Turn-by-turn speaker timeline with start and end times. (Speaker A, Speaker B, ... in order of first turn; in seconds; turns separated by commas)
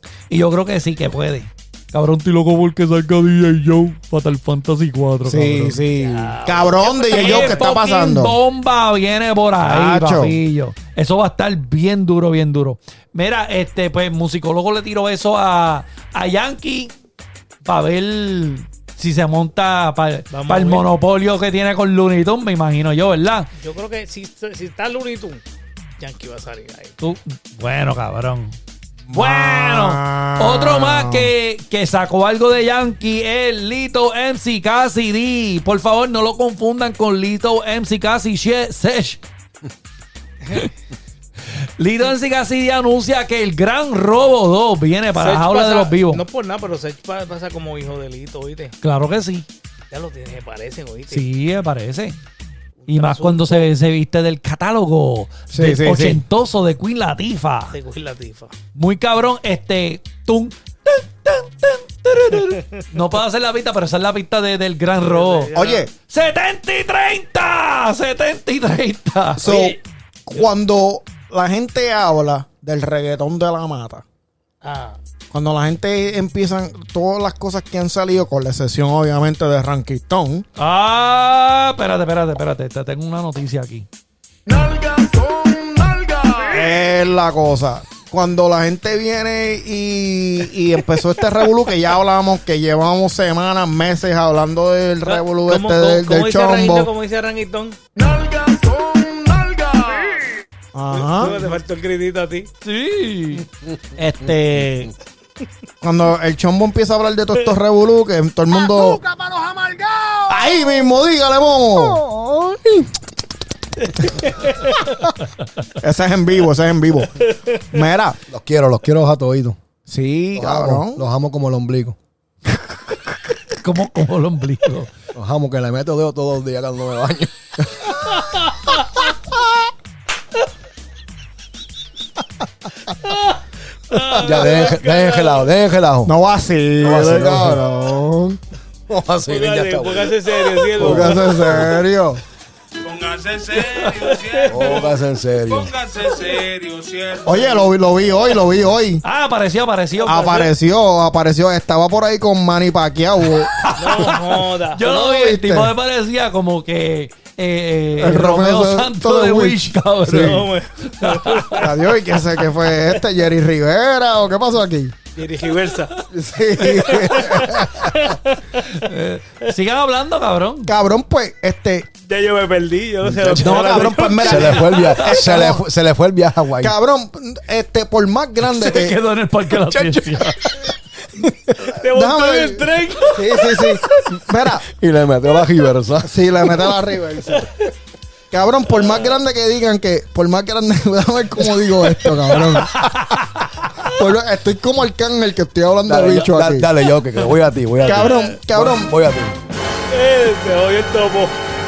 Speaker A: 0.3-5.8, Speaker B: 5.2-8.4, Speaker C: 6.0-7.7, Speaker A: 7.1-16.9, Speaker B: 9.6-10.4, Speaker A: 17.6-23.5, Speaker C: 20.3-20.8, Speaker C: 23.6-25.4, Speaker C: 26.0-27.0, Speaker A: 27.0-28.6, Speaker B: 29.1-31.3, Speaker A: 29.1-39.2, Speaker A: 41.5-46.2, Speaker C: 45.1-48.7, Speaker A: 48.8-49.5, Speaker C: 49.9-51.2, Speaker A: 51.1-52.2, Speaker C: 52.8-53.7, Speaker A: 52.9-57.7, Speaker B: 55.5-56.2, Speaker C: 57.7-58.5, Speaker A: 58.7-65.5, Speaker C: 65.0-65.8, Speaker B: 65.5-65.9, Speaker A: 66.1-69.7, Speaker B: 69.4-74.0, Speaker C: 69.4-69.7, Speaker C: 74.6-75.0, Speaker B: 75.3-80.5, Speaker A: 80.6-83.9, Speaker B: 86.4-96.9, Speaker C: 95.0-97.8, Speaker B: 100.7-101.4, Speaker C: 100.9-102.5, Speaker A: 102.6-104.9, Speaker B: 105.8-109.0, Speaker B: 110.3-112.0, Speaker D: 112.0-112.7, Speaker C: 114.0-114.9, Speaker B: 115.8-118.2, Speaker C: 117.2-117.6, Speaker D: 118.3-119.6, Speaker B: 119.9-121.0, Speaker D: 120.3-122.0, Speaker A: 123.5-124.9, Speaker D: 125.1-128.2, Speaker C: 133.0-133.4, Speaker C: 133.9-135.5, Speaker D: 134.2-136.1, Speaker B: 136.0-138.4, Speaker D: 136.8-137.6, Speaker D: 138.9-141.8, Speaker C: 139.2-141.5, Speaker B: 140.8-142.2, Speaker E: 142.8-147.8, Speaker C: 144.0-144.9, Speaker D: 144.5-145.7, Speaker B: 147.2-149.0, Speaker A: 149.0-150.5, Speaker B: 150.0-153.5, Speaker A: 153.5-161.6, Speaker C: 153.8-154.8, Speaker B: 154.8-155.7, Speaker B: 158.0-160.4, Speaker C: 160.1-161.8, Speaker B: 161.5-164.9, Speaker C: 165.2-165.9, Speaker B: 166.1-167.9, Speaker C: 166.6-168.7, Speaker A: 168.6-170.7, Speaker B: 170.7-171.9, Speaker C: 172.1-174.9, Speaker D: 173.0-176.7, Speaker B: 173.4-175.6, Speaker A: 174.9-175.2, Speaker B: 176.6-178.9, Speaker A: 178.5-180.5, Speaker D: 179.6-180.4, Speaker C: 181.6-183.7, Speaker B: 181.8-184.7, Speaker D: 184.7-186.2, Speaker B: 186.0-187.5, Speaker B: 188.3-193.2, Speaker A: 192.5-193.9, Speaker B: 193.8-196.7, Speaker D: 195.9-199.3, Speaker B: 197.8-198.9, Speaker C: 197.9-198.3, Speaker C: 199.9-201.3